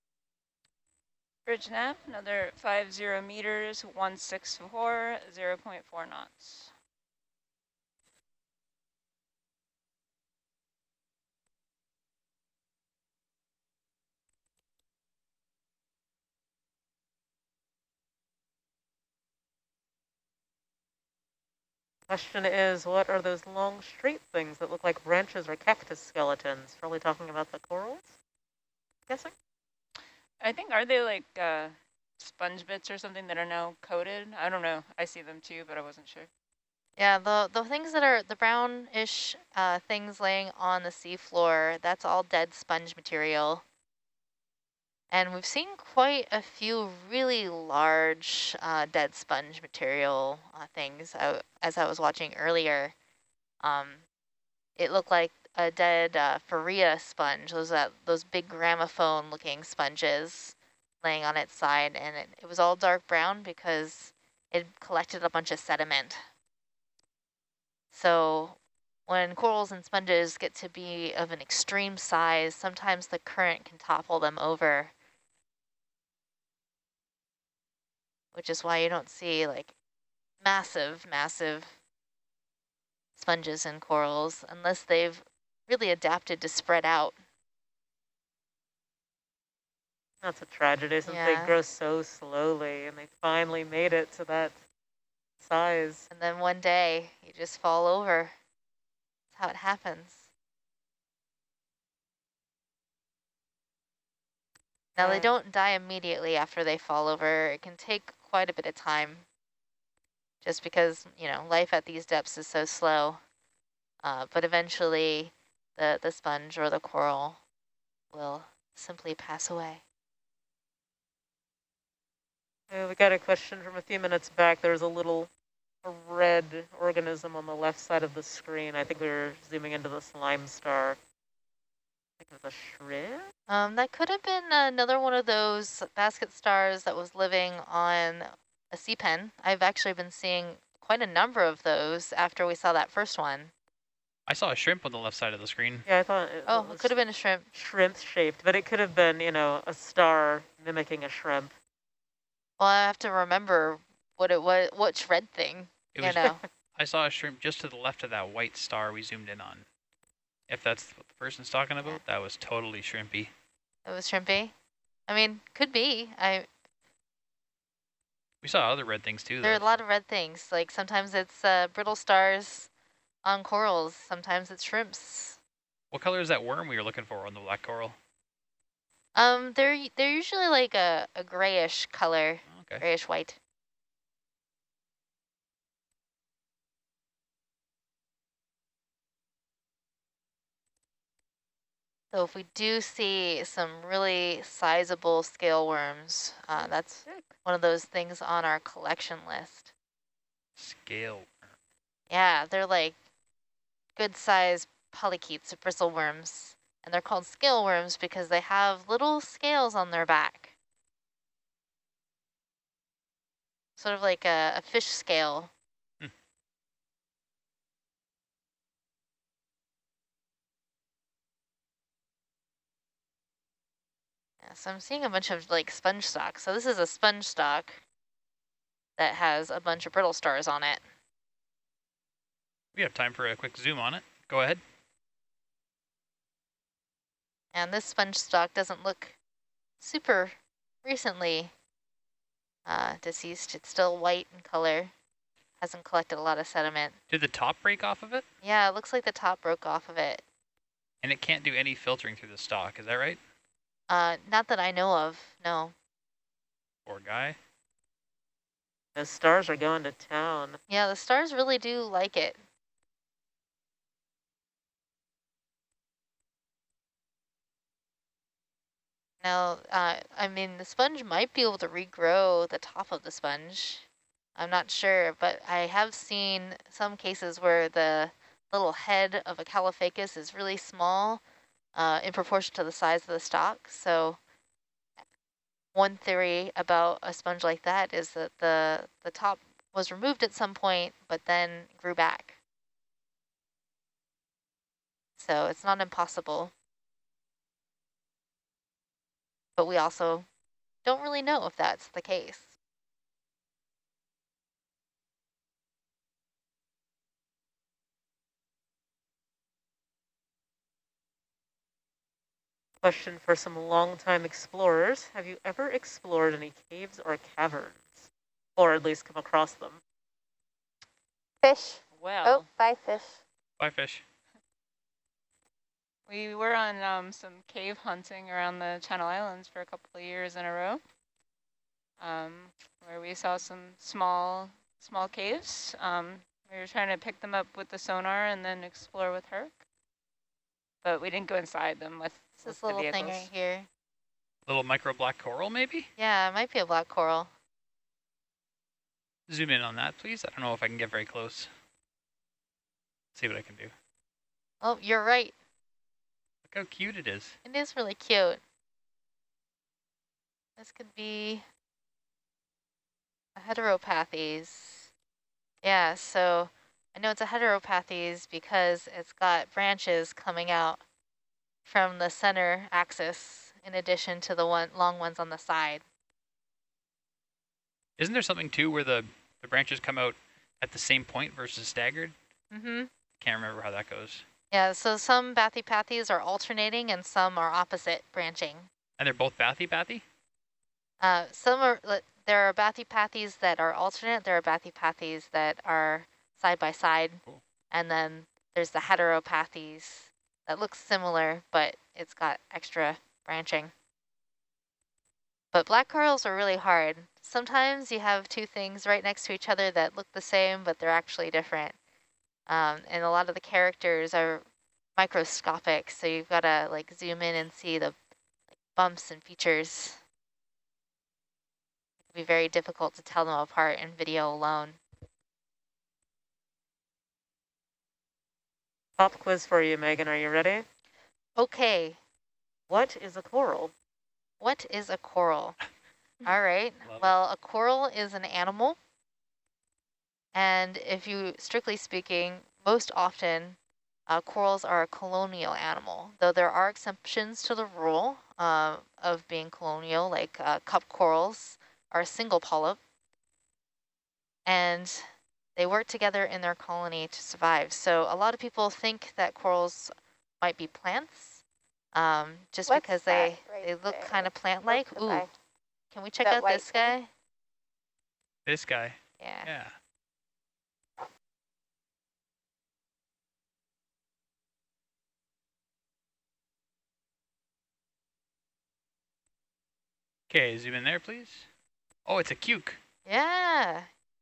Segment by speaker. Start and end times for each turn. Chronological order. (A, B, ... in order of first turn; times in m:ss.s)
0:01.4-0:06.7 A
0:22.1-0:28.2 B
0:30.4-0:36.3 A
0:37.0-0:43.6 C
0:45.1-0:52.9 C
0:53.6-0:54.0 C
0:54.8-1:06.2 C
1:07.9-1:14.9 C
1:18.3-1:19.7 C
1:20.4-1:21.8 C
1:23.2-1:27.2 C
1:30.2-1:34.6 B
1:31.0-1:31.6 C
1:35.4-1:36.1 B
1:36.1-1:38.3 C
1:39.3-1:40.3 C
1:45.0-1:49.2 C
1:45.0-1:45.3 B
1:50.4-1:53.2 C
1:54.0-1:57.4 C
1:58.1-1:59.8 C
2:02.7-2:05.3 B
2:05.8-2:11.0 B
2:12.2-2:13.3 B
2:13.5-2:23.5 C
2:24.3-2:25.8 D
2:25.8-2:27.0 B
2:26.5-2:27.5 C
2:27.5-2:31.5 B
2:32.6-2:36.4 C
2:35.9-2:39.6 D
2:40.5-2:43.3 D
2:43.8-2:44.5 C
2:45.1-2:46.5 C
2:48.4-2:49.8 D
2:49.4-2:52.7 C
2:53.2-2:55.4 C
2:55.9-2:58.0 D
2:59.2-3:03.4 C
3:02.5-3:02.8 D
3:12.1-3:19.7 C
3:20.6-3:21.5 D
3:22.1-3:23.0 C
3:24.0-3:30.5 C
3:33.8-3:35.5 C
3:44.4-3:47.8 C
3:49.0-3:50.8 C
3:52.7-3:54.6 D
3:57.5-3:59.2 C
3:59.8-4:01.5 C
4:02.6-4:04.9 C
4:05.6-4:07.0 C
4:07.1-4:08.2 D
4:08.4-4:10.2 C
4:11.0-4:13.2 D
4:13.9-4:15.7 C
4:16.8-4:17.4 D
4:19.0-4:20.6 B
4:20.7-4:22.4 C
4:29.2-4:41.2 C
4:41.7-4:44.2 C
4:45.7-4:52.4 C
4:55.2-4:56.5 C
4:59.6-5:00.3 C
5:00.8-5:02.5 C
5:12.8-5:19.8 B
5:21.4-5:23.2 E
5:22.0-5:22.5 A
5:23.6-5:24.0 D
5:26.1-5:30.8 A
5:32.0-5:39.6 A
5:40.8-5:43.3 A
5:42.4-5:43.7 C
5:44.5-5:45.9 D
5:46.0-5:47.3 C
5:49.3-5:51.5 D
5:53.1-5:53.7 D
5:54.6-5:55.3 C
5:56.5-5:57.4 D
5:57.4-5:58.4 C
6:00.6-6:01.4 C
6:03.4-6:04.9 C
6:05.6-6:10.8 C
6:11.6-6:15.8 C
6:18.0-6:22.1 D
6:22.5-6:22.9 C
6:23.2-6:24.2 D
6:24.5-6:28.7 C
6:29.0-6:30.0 D
6:31.0-6:43.7 C
6:45.5-6:51.8 C
6:52.5-6:54.4 C
6:55.0-6:57.9 C
6:58.7-7:00.0 C
7:02.1-7:04.8 C
7:09.0-7:10.6 B
7:11.4-7:12.0 C
7:12.7-7:13.7 B
7:14.4-7:15.6 C
7:16.2-7:18.8 C
7:16.8-7:17.1 D
7:20.3-7:23.6 C
7:24.1-7:32.8 C
7:34.4-7:41.4 C
7:41.9-7:45.3 C
7:42.7-7:45.3 E
7:45.9-7:47.1 C
7:46.2-7:46.9 E
7:48.4-7:49.7 D
7:49.2-7:49.5 C
8:00.3-8:01.5 D
8:02.0-8:02.8 D
8:03.0-8:03.9 C